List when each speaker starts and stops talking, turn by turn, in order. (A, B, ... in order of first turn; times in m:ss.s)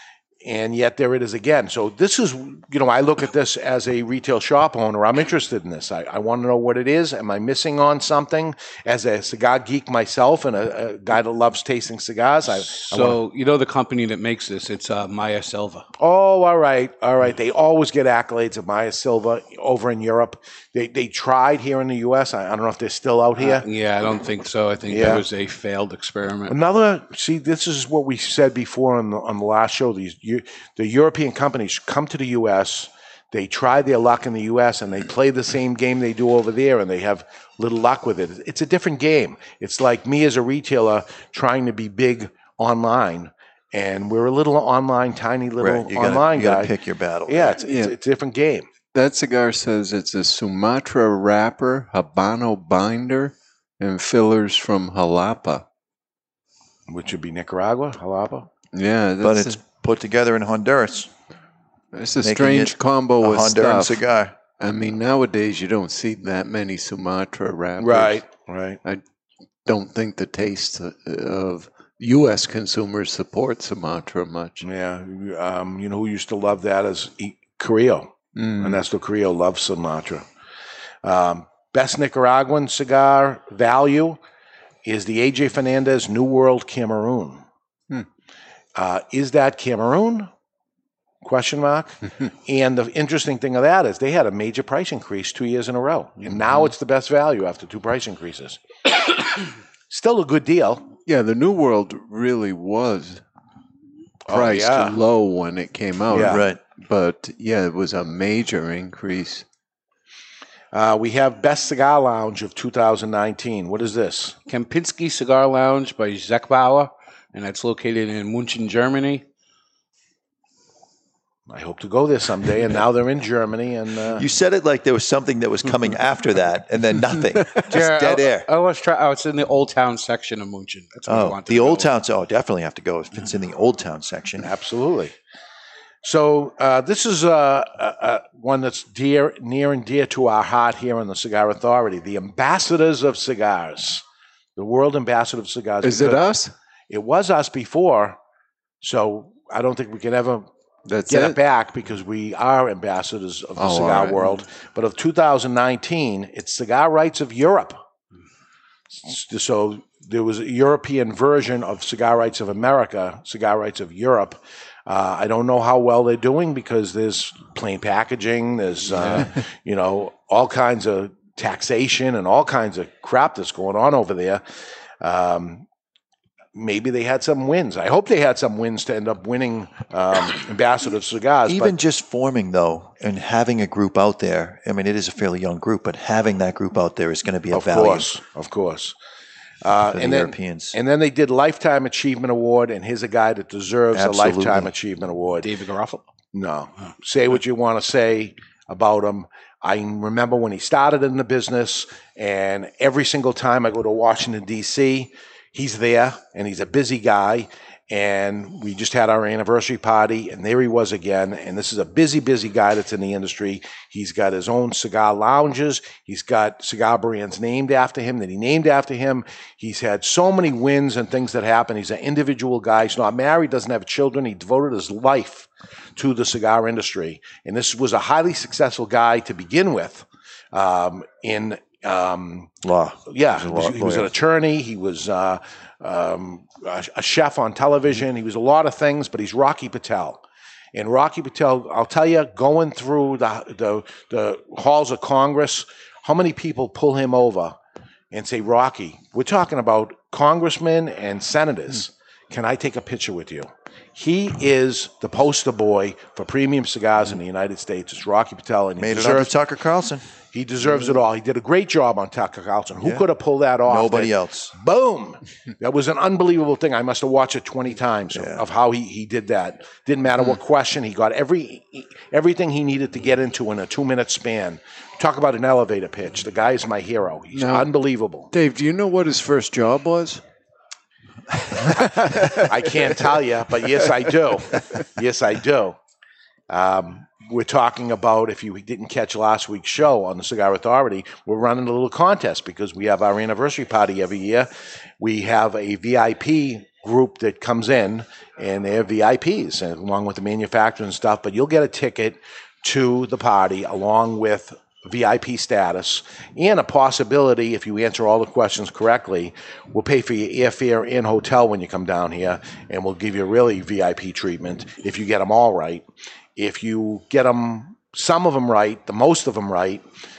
0:00.4-0:13.2 A
0:12.5-0:15.8 B
0:16.0-0:23.7 A
0:23.4-0:26.6 B
0:24.9-0:25.2 A
0:26.5-0:46.7 A
0:45.6-0:47.6 C
0:47.3-0:48.7 A
0:47.7-0:47.9 D
0:48.9-0:55.7 D
0:56.9-0:58.5 A
0:58.7-0:59.6 D
0:59.2-1:01.1 C
1:01.9-1:04.0 D
1:02.2-1:04.3 C
1:04.6-1:08.2 D
1:07.8-1:08.8 A
1:09.6-1:14.6 D
1:14.6-1:20.2 A
1:18.4-1:18.8 D
1:21.0-1:24.2 A
1:24.8-1:27.4 A
1:28.8-1:30.3 A
1:31.2-1:38.6 A
1:39.9-1:40.9 A
1:41.1-1:43.2 D
1:44.3-1:49.5 D
1:44.3-1:45.0 A
1:46.1-1:46.4 A
1:46.2-1:46.6 C
1:50.7-1:54.4 A
1:54.5-1:59.2 B
2:01.5-2:04.3 A
2:04.2-2:08.5 C
2:07.7-2:11.9 B
2:11.1-2:14.5 C
2:14.4-2:15.2 A
2:16.0-2:24.0 A
2:24.6-2:26.2 A
2:25.8-2:26.5 D
2:26.9-2:28.2 A
2:28.8-2:30.5 A
2:30.9-2:31.4 D
2:31.1-2:37.8 A
2:33.6-2:34.4 D
2:38.9-2:54.4 A
2:55.0-2:55.7 A
2:56.6-3:01.7 A
3:01.5-3:08.1 C
3:07.5-3:09.0 A
3:09.6-3:15.5 A
3:09.9-3:10.8 C
3:13.9-3:14.7 C
3:15.4-3:16.0 B
3:16.3-3:52.5 A
3:52.6-3:54.1 C
3:53.1-4:00.2 A
4:00.7-4:07.6 A
4:08.1-4:19.3 A
4:18.8-4:20.1 C
4:20.3-4:38.3 A
4:22.8-4:23.0 C
4:23.6-4:24.5 C
4:28.1-4:28.4 C
4:37.4-4:37.7 D
4:38.3-4:40.2 D
4:41.5-4:42.5 D
4:41.9-4:45.8 A
4:46.5-5:19.8 A